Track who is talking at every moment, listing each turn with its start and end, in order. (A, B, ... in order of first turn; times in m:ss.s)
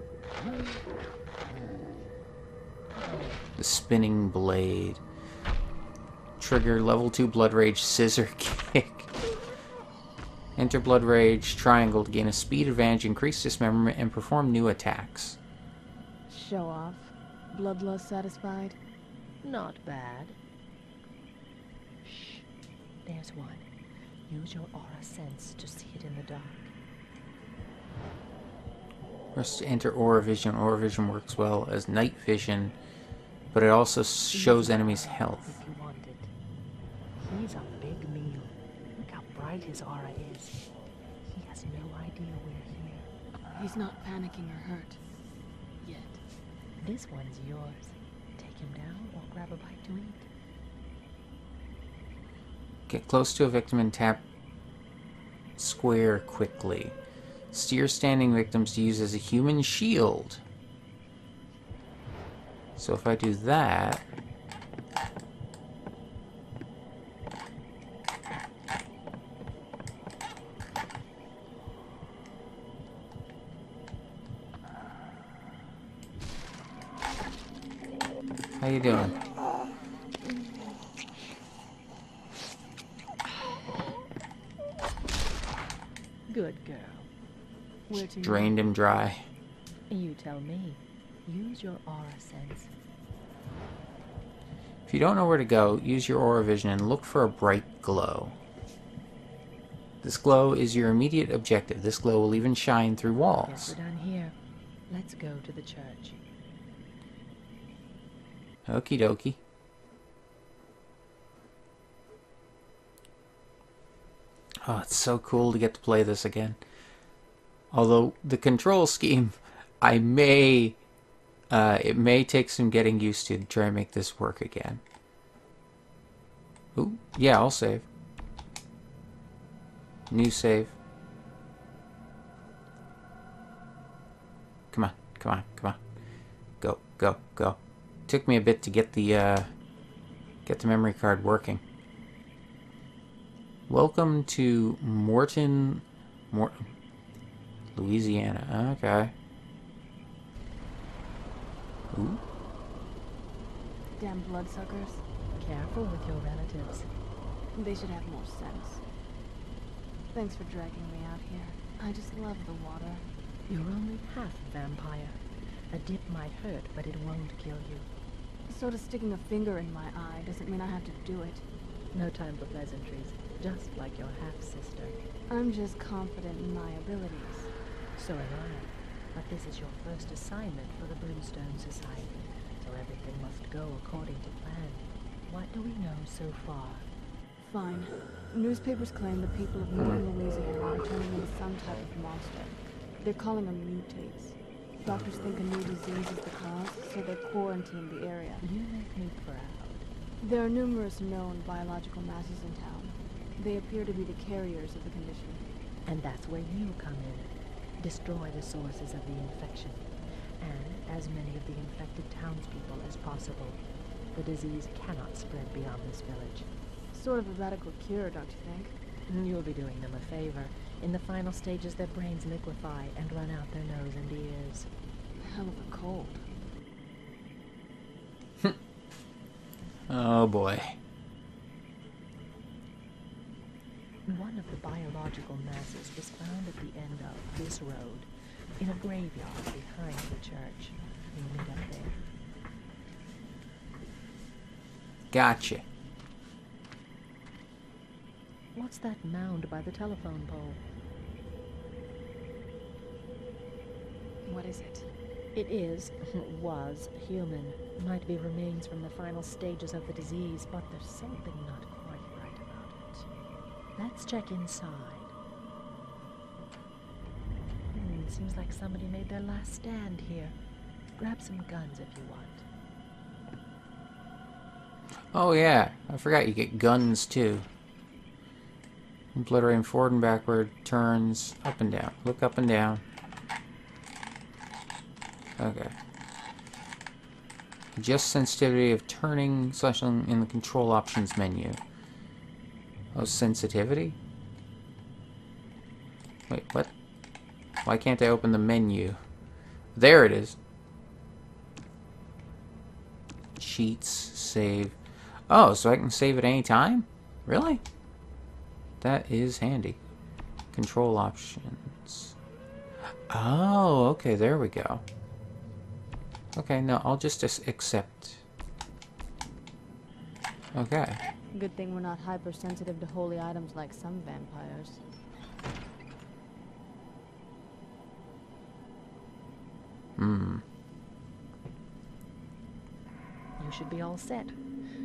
0:03.6-0:05.0 A
0:06.4-0:09.1 A
0:10.6-0:15.4 A
0:16.3-0:18.8 B
0:19.4-0:20.4 C
0:22.0-0:22.4 C
0:23.0-0:23.7 C
0:24.3-0:26.7 C
0:29.4-0:32.8 A
0:33.5-0:35.6 A
0:34.3-0:36.3 C
0:37.2-0:40.6 C
0:41.3-0:43.1 C
0:43.5-0:45.0 B
0:45.8-0:46.2 B
0:46.8-0:50.3 C
0:52.9-0:54.2 A
0:55.6-0:57.0 A
0:57.5-1:00.4 A
1:02.8-1:04.1 A
1:18.6-1:19.2 A
1:26.3-1:27.1 C
1:27.9-1:28.6 B
1:28.0-1:29.2 A
1:29.9-1:32.7 C
1:34.9-1:38.4 A
1:40.0-1:43.8 A
1:43.3-1:44.4 C
1:44.9-1:46.2 C
1:48.7-1:49.4 A
1:54.6-1:56.6 A
1:57.7-2:00.8 A
2:01.5-2:04.8 A
2:06.8-2:07.9 A
2:10.1-2:10.7 A
2:14.7-2:15.8 A
2:16.6-2:19.5 A
2:20.4-2:21.6 A
2:23.7-2:26.6 A
2:27.8-2:29.1 A
2:31.9-2:32.2 A
2:34.0-2:35.0 B
2:35.4-2:36.9 C
2:37.6-2:38.8 B
2:40.1-2:43.0 B
2:43.5-2:45.2 C
2:45.7-2:47.9 C
2:48.5-2:51.4 B
2:51.9-2:55.0 C
2:55.3-2:57.5 B
2:58.0-3:06.9 C
3:07.4-3:18.5 B
3:18.4-3:19.8 C
3:20.2-3:25.5 B
3:25.9-3:29.8 C
3:30.4-3:33.6 C
3:34.1-3:36.5 C
3:36.9-3:38.8 B
3:39.1-3:44.7 C
3:45.2-3:46.2 B
3:49.9-3:50.8 A
3:54.1-4:02.0 C
4:05.1-4:05.6 A
4:08.6-4:10.6 C
4:14.2-4:14.9 B
4:15.4-4:23.1 C
4:23.8-4:25.1 C
4:27.7-4:30.4 C
4:31.0-4:32.5 C
4:35.1-4:37.5 A
4:39.1-4:42.8 A
4:45.4-4:45.7 A
4:47.8-4:51.6 A
4:52.9-4:54.0 A
4:56.3-4:56.7 A
4:57.6-4:59.0 A
4:59.8-5:00.4 A
5:03.4-5:04.8 A
5:05.3-5:07.6 A
5:08.8-5:09.8 A
5:10.5-5:12.1 A
5:13.1-5:14.8 A
5:16.4-5:18.2 A
5:20.5-5:21.0 A
5:21.3-5:24.8 B
5:30.0-5:30.4 A
5:33.4-5:34.4 C